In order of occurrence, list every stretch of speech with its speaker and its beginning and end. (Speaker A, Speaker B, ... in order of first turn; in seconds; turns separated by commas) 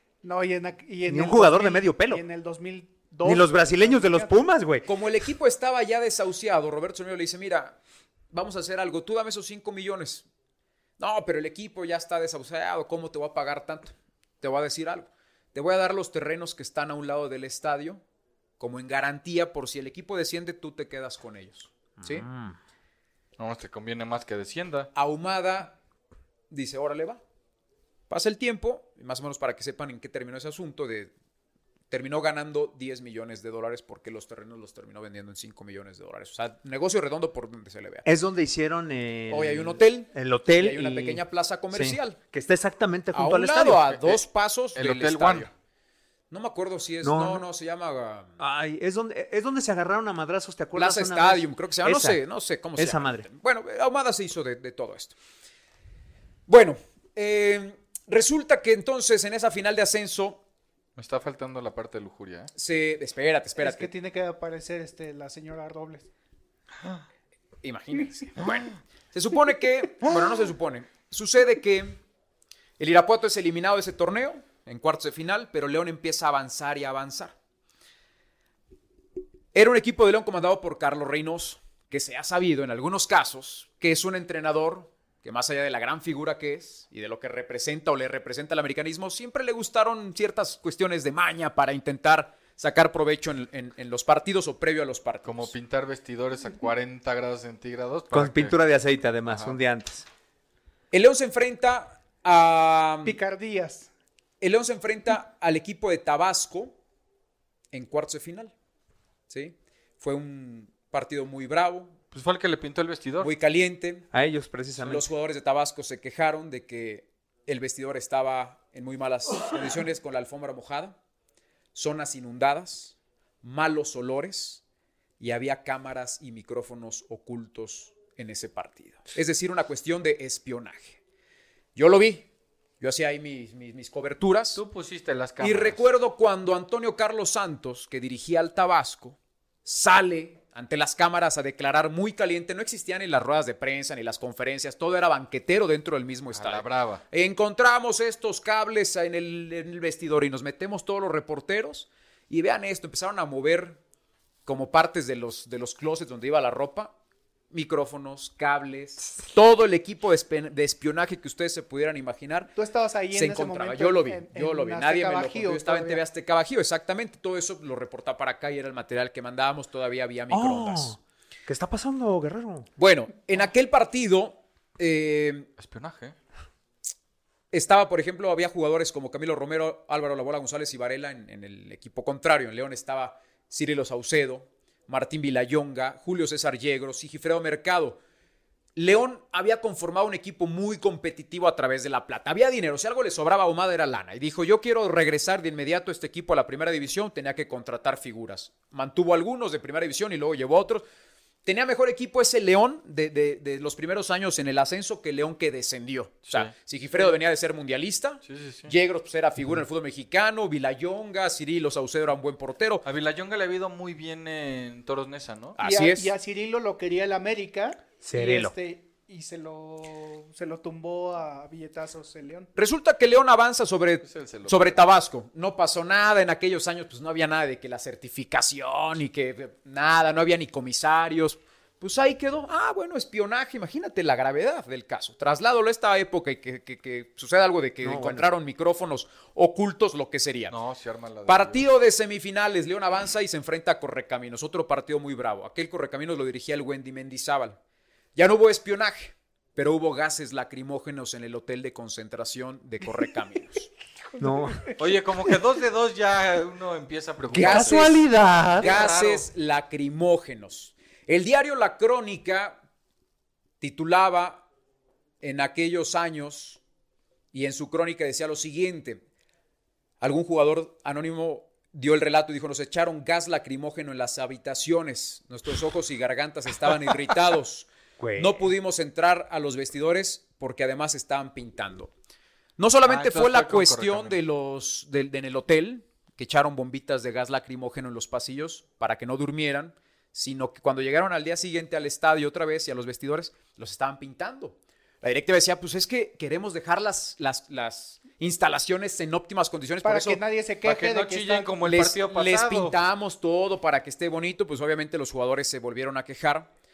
Speaker A: 0.2-4.4, Speaker B: 1.1-2.2, Speaker B: 3.2-4.9, Speaker C: 4.8-7.8, Speaker C: 8.3-10.2, Speaker C: 11.0-18.0, Speaker C: 18.6-22.3, Speaker B: 22.0-22.6, Speaker D: 23.4-24.9, Speaker C: 24.9-25.8, Speaker C: 26.5-27.2, Speaker C: 28.1-31.1, Speaker C: 31.9-38.0, Speaker B: 38.0-44.0, Speaker C: 39.3-42.2, Speaker C: 43.1-45.5, Speaker D: 44.8-45.5, Speaker C: 46.3-48.4, Speaker B: 47.0-47.4, Speaker B: 48.4-52.2, Speaker C: 50.8-55.1, Speaker B: 52.8-53.3, Speaker C: 56.5-60.4, Speaker D: 61.0-62.5, Speaker C: 62.5-63.9, Speaker A: 63.6-66.1, Speaker C: 67.6-72.0, Speaker C: 72.8-77.3, Speaker C: 79.5-95.5, Speaker D: 95.2-98.6, Speaker B: 98.1-100.1, Speaker D: 99.3-99.6, Speaker C: 100.9-103.2, Speaker A: 103.0-103.9, Speaker C: 104.4-106.7, Speaker C: 107.7-108.5, Speaker C: 109.3-112.0, Speaker D: 112.1-113.3, Speaker C: 113.2-114.1, Speaker B: 114.1-115.1, Speaker C: 114.8-121.0, Speaker C: 121.8-124.6, Speaker C: 125.2-131.0, Speaker C: 131.8-132.3, Speaker C: 132.8-134.6, Speaker D: 134.6-135.8, Speaker C: 135.4-153.8, Speaker D: 146.3-147.0, Speaker C: 154.5-156.9, Speaker C: 157.5-162.5, Speaker A: 162.6-166.0, Speaker C: 163.1-171.0, Speaker B: 170.3-172.7, Speaker C: 172.8-175.5, Speaker D: 175.6-176.2, Speaker C: 177.5-188.0, Speaker C: 188.8-200.8, Speaker C: 201.5-212.8, Speaker D: 208.2-208.7, Speaker D: 212.8-215.6, Speaker C: 215.6-216.1, Speaker A: 215.6-222.5, Speaker B: 218.0-218.5, Speaker C: 222.6-240.6, Speaker D: 224.0-224.8, Speaker B: 237.8-238.3, Speaker D: 240.5-241.6, Speaker C: 241.3-247.6, Speaker C: 248.2-253.7, Speaker B: 254.2-254.8, Speaker D: 254.8-259.3, Speaker B: 257.3-258.8, Speaker C: 257.3-258.0, Speaker C: 258.6-262.6, Speaker C: 263.6-264.5, Speaker C: 265.2-266.6, Speaker C: 267.3-269.0, Speaker C: 270.0-281.9, Speaker B: 278.0-278.5, Speaker C: 282.6-300.2, Speaker D: 282.9-284.2, Speaker A: 299.8-301.5, Speaker D: 300.6-302.8, Speaker C: 301.6-306.5